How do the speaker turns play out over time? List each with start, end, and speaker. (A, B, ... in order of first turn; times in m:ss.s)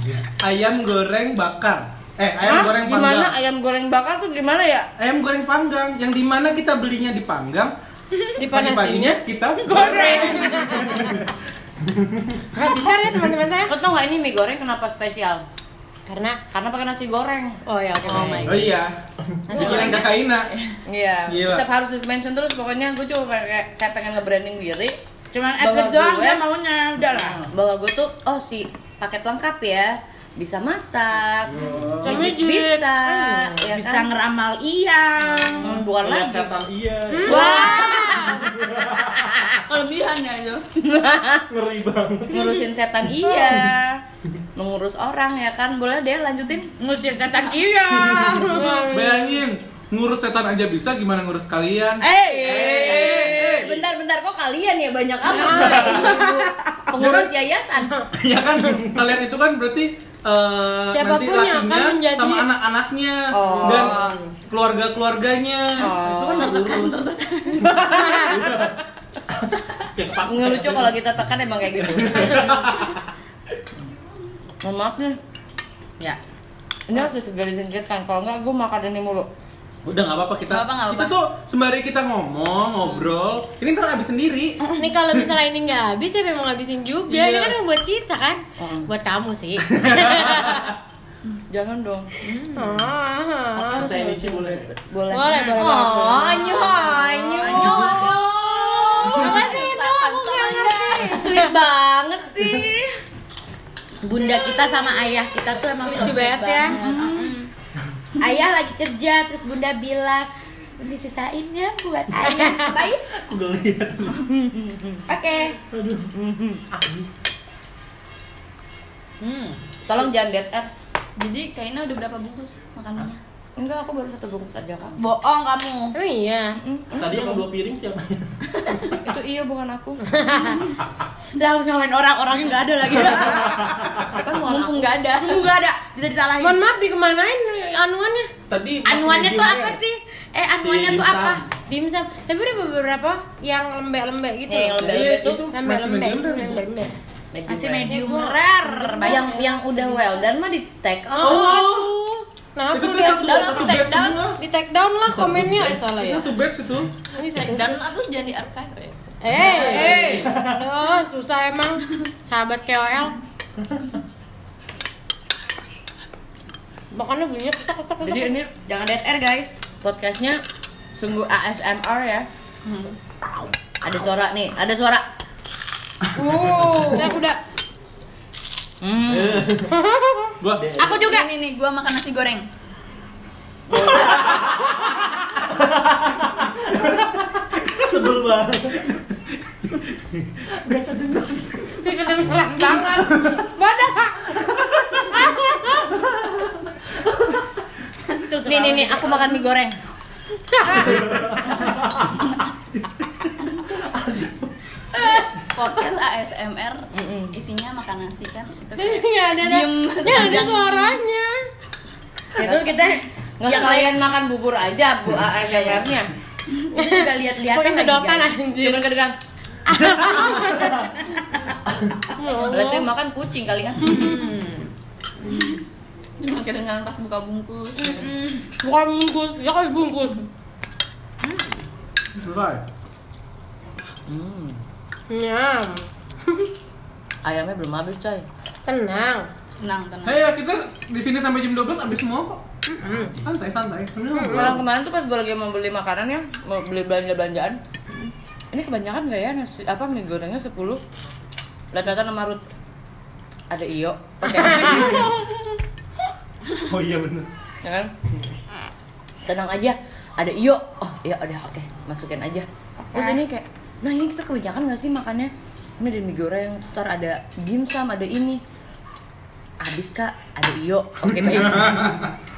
0:00.3-0:03.4 A
0:02.4-0:04.9 B
0:05.0-0:07.7 A
0:08.4-0:09.2 C
0:08.4-0:11.3 A
0:09.7-0:10.4 D
0:10.0-0:11.0 C
0:12.6-0:13.7 C
0:13.7-0:15.4 B
0:16.1-0:16.4 C
0:16.5-0:17.6 B
0:17.7-0:18.7 C
0:18.2-0:18.5 D
0:18.5-0:20.5 A
0:19.5-0:20.1 C
0:20.9-0:25.0 B
0:21.3-0:21.7 A
0:25.3-0:27.5 D
0:25.6-0:26.5 B
0:27.0-0:34.1 B
0:31.6-0:32.3 A
0:32.0-0:33.6 C
0:33.6-0:35.8 D
0:35.6-0:36.6 B
0:35.8-0:37.6 E
0:37.1-0:38.4 C
0:37.3-0:38.2 B
0:37.3-0:38.4 D
0:38.3-0:39.4 E
0:39.7-0:40.7 F
0:40.8-0:41.5 B
0:41.5-0:42.6 E
0:42.3-0:44.0 B
0:44.6-0:46.7 B
0:46.8-0:48.9 D
0:48.1-0:53.8 A
0:48.1-0:49.4 C
0:52.0-0:53.4 D
0:52.1-0:58.0 B
0:55.2-0:56.5 C
0:56.9-0:57.3 A
0:58.2-1:07.0 A
1:00.9-1:02.5 C
1:03.3-1:04.2 B
1:03.5-1:04.2 C
1:05.8-1:07.0 B
1:07.7-1:08.7 A
1:07.9-1:08.4 C
1:08.3-1:08.7 E
1:09.9-1:11.0 E
1:10.2-1:12.6 B
1:11.7-1:12.5 E
1:12.3-1:12.9 A
1:14.6-1:15.2 B
1:16.9-1:19.3 B
1:19.8-1:24.6 A
1:20.5-1:21.2 F
1:24.8-1:30.7 C
1:27.1-1:27.6 A
1:28.6-1:28.9 B
1:29.8-1:30.5 A
1:31.5-1:32.2 B
1:32.6-1:34.4 C
1:33.7-1:34.8 E
1:33.8-1:34.3 B
1:34.9-1:39.4 B
1:35.1-1:36.7 C
1:35.9-1:41.2 D
1:39.1-1:41.6 C
1:39.2-1:39.9 F
1:41.1-1:42.9 B
1:44.0-1:47.5 D
1:44.2-1:44.6 C
1:45.8-1:46.8 C
1:46.8-1:47.3 B
1:48.2-1:53.0 D
1:52.2-1:52.6 C
1:53.2-1:54.3 E
1:54.4-1:55.0 B
1:55.1-1:55.6 D
1:55.7-1:56.1 E
1:56.1-1:56.6 B
1:59.2-1:59.6 D
1:59.9-2:00.7 B
2:01.2-2:03.2 F
2:03.6-2:05.0 B
2:05.0-2:05.9 D
2:05.9-2:06.6 C
2:06.6-2:07.5 B
2:06.9-2:08.5 E
2:09.0-2:10.0 B
2:10.1-2:10.6 C
2:11.4-2:16.6 D
2:14.1-2:15.0 B
2:15.1-2:15.4 F
2:16.4-2:18.3 C
2:18.5-2:19.8 A
2:18.8-2:21.4 D
2:20.6-2:21.4 A
2:21.7-2:27.0 C
2:24.5-2:25.5 B
2:24.8-2:26.6 A
2:27.3-2:28.2 B
2:27.5-2:29.5 D
2:27.8-2:29.4 C
2:28.9-2:31.7 B
2:31.1-2:36.3 C
2:31.2-2:31.9 A
2:32.7-2:34.4 A
2:33.3-2:34.2 D
2:35.1-2:36.9 A
2:37.2-2:37.8 C
2:37.3-2:40.3 F
2:39.2-2:43.2 C
2:39.6-2:39.9 B
2:39.7-2:40.2 D
2:46.9-2:48.4 C
2:48.0-2:48.5 B
2:48.6-2:49.6 D
2:49.8-2:50.4 B
2:51.0-2:52.3 B
2:52.7-2:53.0 F
2:53.8-2:55.0 B
2:56.2-2:57.0 D
2:56.6-2:57.4 C
2:58.8-2:59.5 B
2:59.1-2:59.7 E
2:59.7-3:00.3 C
3:00.4-3:00.7 A
3:00.6-3:01.1 E
3:00.8-3:02.4 F
3:01.0-3:01.3 D
3:03.7-3:04.4 B
3:05.5-3:09.2 E
3:09.7-3:11.7 E
3:11.8-3:15.9 C
3:18.1-3:19.2 F
3:18.4-3:19.8 B
3:18.5-3:19.2 D
3:20.5-3:21.3 C
3:20.9-3:22.1 E
3:23.9-3:24.5 E
3:25.0-3:31.0 F
3:26.9-3:27.4 B
3:28.8-3:31.3 C
3:32.4-3:34.0 D
3:32.4-3:36.1 B
3:35.4-3:35.9 D
3:36.7-3:38.9 C
3:36.8-3:38.3 D
3:38.5-3:39.2 B
3:39.7-3:41.0 C
3:39.9-3:40.2 B
3:42.2-3:42.9 C
3:42.5-3:44.2 B
3:43.8-3:44.1 C
3:44.0-3:44.7 D
3:45.3-3:45.6 F
3:46.2-3:48.2 F
3:48.0-3:48.4 D
3:48.6-3:50.2 C
3:52.2-3:52.6 A
3:54.1-3:54.6 B
3:55.1-3:56.5 C
3:57.2-3:58.3 B
3:58.7-3:59.3 C
3:59.6-4:00.2 F
4:00.0-4:02.4 A
4:02.7-4:03.1 C
4:02.9-4:03.2 E
4:03.2-4:04.6 A
4:04.1-4:04.6 C
4:04.3-4:07.6 B
4:08.5-4:10.8 B
4:11.7-4:12.4 B
4:13.5-4:15.1 B
4:14.6-4:15.1 E
4:16.7-4:17.3 E
4:17.6-4:17.9 B
4:19.3-4:28.4 B
4:29.6-4:32.0 B
4:31.2-4:32.1 A